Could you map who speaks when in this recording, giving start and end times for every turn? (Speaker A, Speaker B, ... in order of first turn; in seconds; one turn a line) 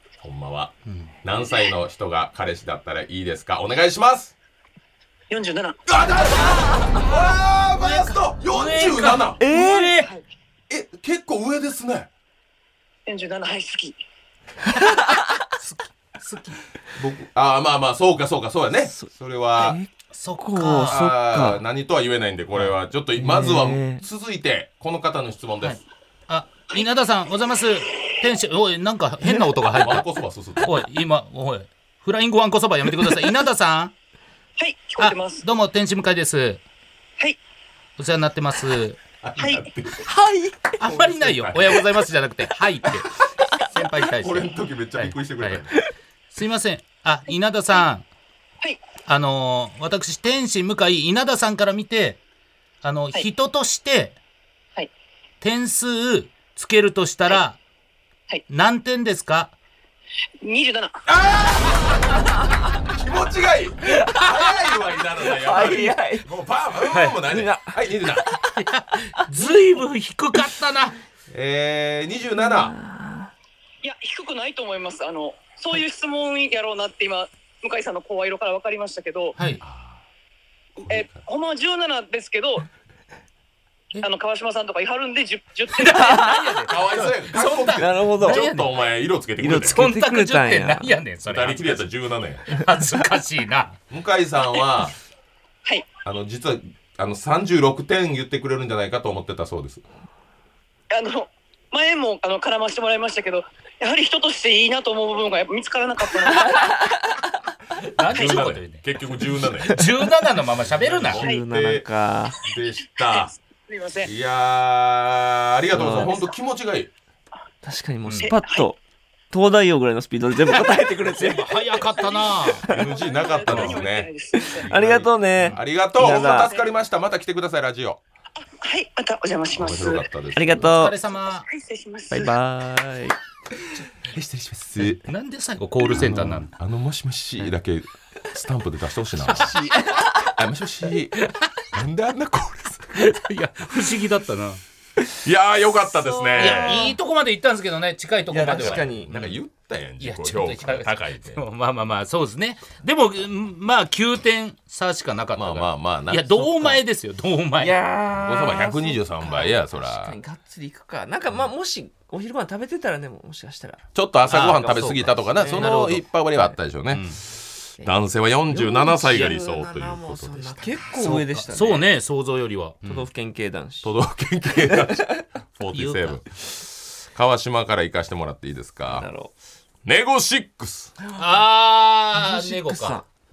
Speaker A: 0.2-4.3
Speaker B: 0.8-1.1
Speaker C: 5.3-5.8
Speaker A: 5.9-9.4
Speaker B: 7.8-10.1
Speaker D: 9.4-10.0
Speaker A: 10.7-12.1
Speaker C: 13.1-14.0
Speaker D: 14.8-15.1
Speaker B: 15.6-16.6
Speaker A: 16.9-19.8
Speaker D: 18.9-21.6
Speaker B: 20.1-21.0
Speaker A: 20.6-25.8
Speaker D: 23.1-24.0
Speaker B: 25.6-30.0
Speaker A: 29.7-30.7
Speaker B: 30.6-33.9
Speaker C: 34.6-35.4
Speaker B: 35.0-36.6
Speaker B: 38.0-39.0
Speaker A: 39.2-40.1
Speaker C: 39.4-39.6
Speaker D: 40.0-40.8
Speaker A: 40.8-41.9
Speaker B: 40.8-45.6
Speaker A: 44.2-45.7
Speaker B: 46.3-48.0
Speaker B: 49.0-52.2
Speaker B: 52.8-54.1
Speaker B: 55.4-57.6
Speaker B: 58.5-59.5
Speaker C: 60.4-61.0
Speaker A: 61.1-62.0
Speaker A: 62.8-68.3
Speaker D: 65.2-66.2
Speaker B: 66.9-67.2
Speaker D: 67.3-67.8
Speaker B: 68.4-71.0
Speaker A: 71.3-72.7
Speaker D: 72.3-73.3
Speaker C: 73.8-79.4
Speaker B: 79.4-79.6
Speaker A: 79.6-80.0
Speaker A: 80.8-81.2
Speaker C: 80.8-82.7
Speaker C: 84.0-86.3
Speaker B: 85.7-88.8
Speaker D: 85.9-86.4
Speaker A: 86.7-89.8
Speaker D: 87.8-88.4
Speaker D: 89.4-91.0
Speaker B: 89.5-91.9
Speaker A: 91.2-92.5
Speaker B: 92.5-93.8
Speaker A: 93.9-95.0
Speaker A: 96.0-99.8
Speaker C: 100.9-106.7
Speaker B: 107.9-111.2
Speaker A: 108.0-109.9
Speaker A: 110.7-111.8
Speaker D: 111.1-112.4
Speaker A: 112.4-113.3
Speaker C: 113.1-114.1
Speaker A: 114.0-116.9
Speaker D: 115.7-116.2
Speaker D: 117.6-118.8
Speaker B: 118.0-118.3
Speaker C: 118.2-118.7
Speaker D: 119.3-121.6
Speaker B: 121.1-122.7
Speaker C: 121.9-124.7
Speaker A: 122.7-128.0
Speaker B: 123.5-123.8
Speaker D: 124.3-126.5
Speaker C: 126.0-126.7
Speaker C: 128.5-130.1
Speaker A: 129.5-130.7
Speaker D: 130.3-130.9
Speaker B: 130.6-131.4
Speaker C: 131.5-132.3
Speaker D: 132.1-133.2
Speaker A: 134.0-135.1
Speaker B: 135.0-136.5
Speaker A: 135.8-139.6
Speaker D: 139.3-140.1
Speaker A: 140.2-143.0
Speaker B: 142.9-144.6
Speaker A: 145.2-146.9
Speaker D: 146.1-146.9
Speaker B: 146.3-149.4
Speaker D: 148.3-149.1
Speaker A: 148.4-151.4
Speaker B: 150.0-157.7
Speaker A: 155.3-156.8
Speaker D: 157.6-165.8
Speaker A: 158.1-160.2
Speaker A: 163.9-170.9
Speaker B: 164.3-166.1
Speaker B: 166.9-167.2
Speaker D: 168.5-171.8
Speaker B: 170.9-173.1
Speaker D: 172.8-173.9
Speaker A: 173.8-179.1
Speaker D: 174.7-175.2
Speaker B: 175.7-176.2
Speaker D: 178.9-179.3
Speaker A: 179.8-180.9
Speaker B: 181.2-183.0
Speaker D: 182.1-183.1